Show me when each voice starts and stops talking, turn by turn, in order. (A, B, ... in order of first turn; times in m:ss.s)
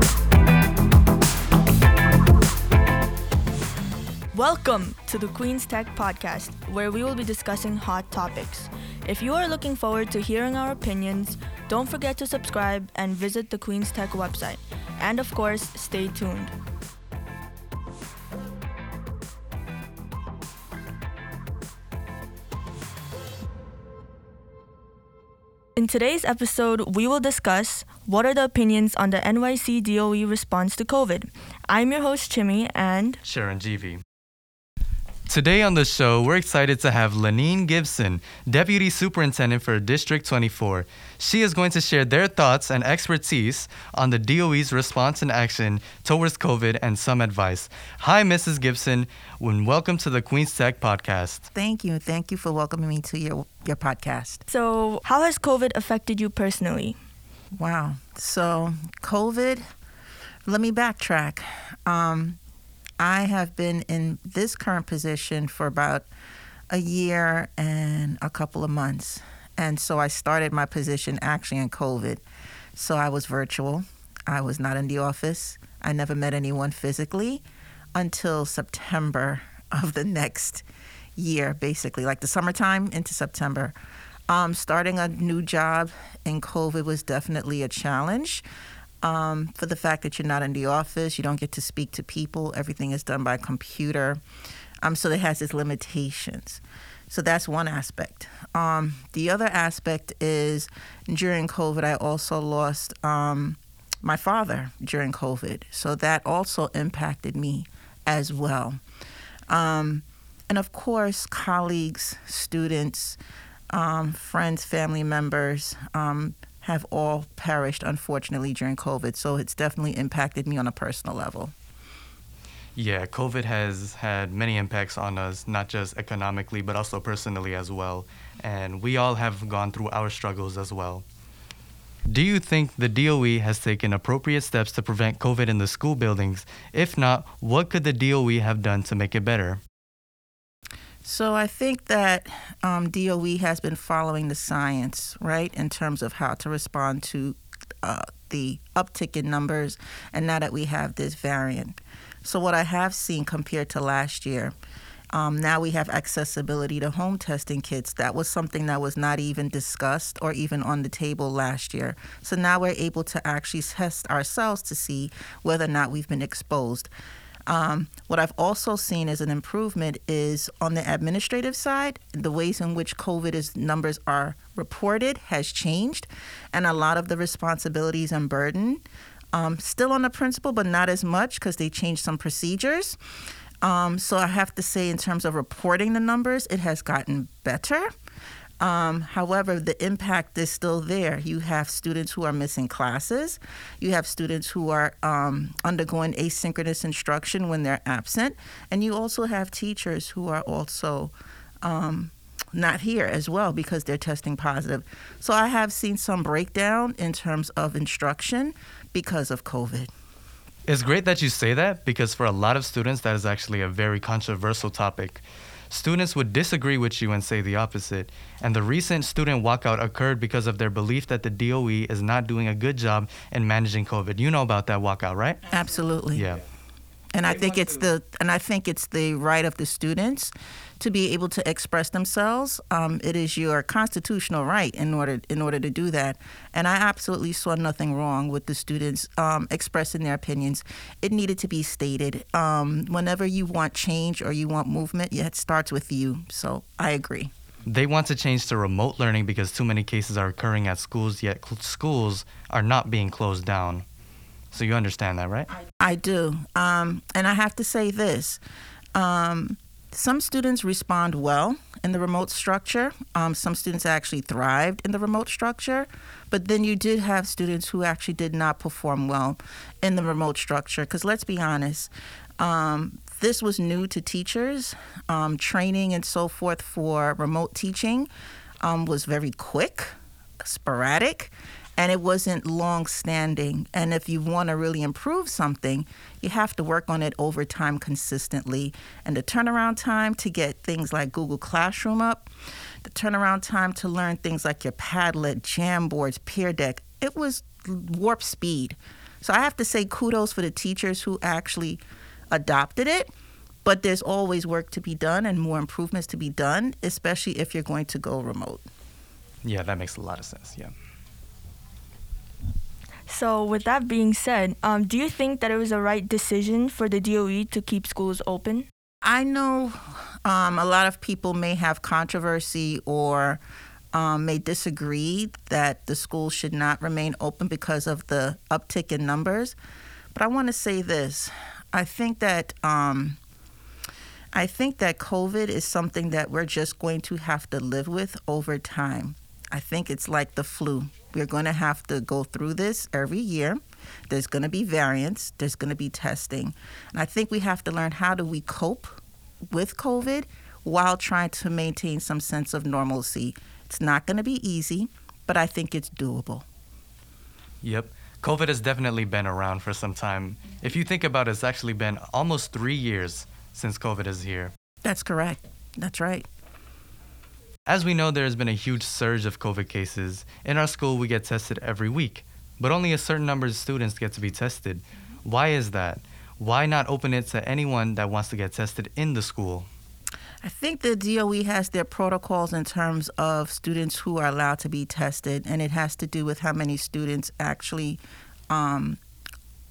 0:04.3-0:16.5 A
0:25.8-0:33.2 A
0:33.2-0:34.0 B
0:35.3-0:51.5 B
0:51.5-0:54.4 C
0:54.5-0:57.0 A
0:57.6-0:59.6 C
1:00.5-1:02.4 C
1:03.0-1:06.1 C
1:06.7-1:12.2 C
1:12.8-1:17.4 C
1:18.0-1:20.6 C
1:21.2-1:23.7 C
1:24.3-1:28.4 C
1:29.0-1:34.2 C
1:34.8-1:48.8 C
1:49.5-1:53.2 C
1:53.7-2:01.5 C
2:02.8-2:11.0 B
2:12.1-2:19.6 B
2:21.0-2:34.5 C
2:35.1-2:46.9 C
2:47.5-3:03.0 C
3:03.6-3:07.9 C
3:08.6-3:29.9 C
3:30.7-3:45.4 B
3:45.5-3:46.2 C
3:46.1-3:46.4 B
3:47.1-4:07.3 C
4:07.7-4:13.8 B
4:14.5-4:15.5 B
4:15.8-4:18.4 C
4:19.0-4:38.1 C
4:38.6-4:52.3 C
4:52.8-5:03.1 C
5:03.6-5:08.6 C
5:09.4-5:10.7 B
5:13.1-5:18.7 A
5:19.0-5:23.4 C
5:23.9-5:29.6 C
5:30.1-5:33.2 C
5:34.3-5:49.0 C
5:49.5-5:56.5 C
5:57.6-6:04.5 B
6:04.8-6:06.3 C
6:07.7-6:19.7 B
6:20.4-6:29.0 C